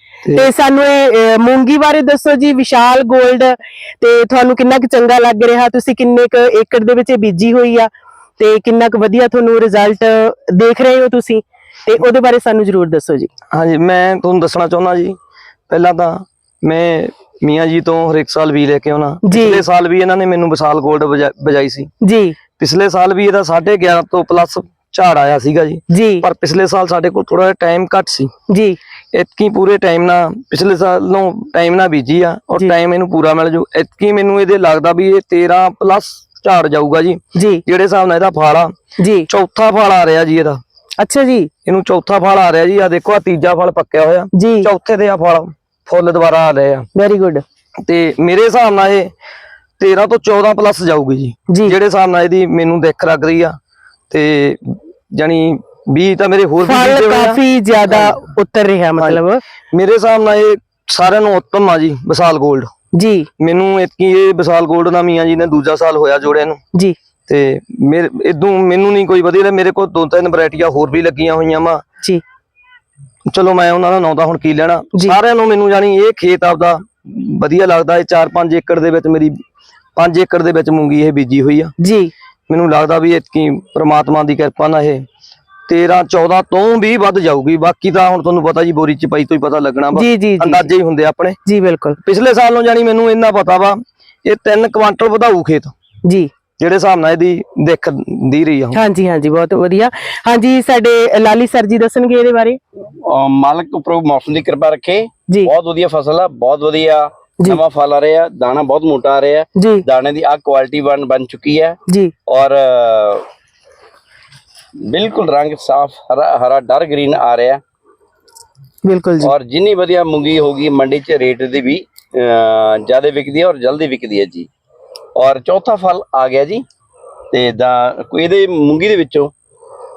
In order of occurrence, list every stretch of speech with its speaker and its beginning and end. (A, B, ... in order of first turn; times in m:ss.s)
0:00.2-0:00.5 A
0:00.3-0:13.3 B
0:13.5-0:15.2 A
0:15.7-0:21.9 A
0:19.2-0:19.6 B
0:22.0-0:22.4 B
0:22.6-0:28.3 A
0:25.9-0:26.2 B
0:28.5-0:28.8 B
0:29.1-0:38.7 A
0:37.4-0:37.6 B
0:39.0-0:39.3 B
0:39.3-0:40.6 A
0:41.0-0:41.5 B
0:41.7-0:46.9 A
0:44.3-0:44.7 B
0:47.0-0:47.4 B
0:47.8-0:49.1 A
0:49.8-0:53.6 A
0:51.5-0:51.8 B
0:54.1-0:58.2 A
0:56.6-0:59.4 B
0:59.7-1:02.7 A
1:02.9-1:03.3 B
1:03.4-1:06.6 A
1:07.3-1:11.8 A
1:13.3-1:19.3 A
1:20.0-1:21.7 A
1:21.8-1:22.1 B
1:22.5-1:25.0 A
1:25.7-1:31.4 A
1:29.9-1:30.7 B
1:31.5-1:32.0 B
1:32.0-1:35.7 A
1:36.0-1:36.3 B
1:36.6-1:38.8 A
1:38.7-1:42.6 B
1:43.0-1:53.3 C
1:49.6-1:49.8 B
1:51.9-1:52.1 B
1:54.9-1:57.6 C
1:58.8-1:59.3 B
1:59.2-2:04.5 C
2:05.2-2:06.6 C
2:07.3-2:09.3 C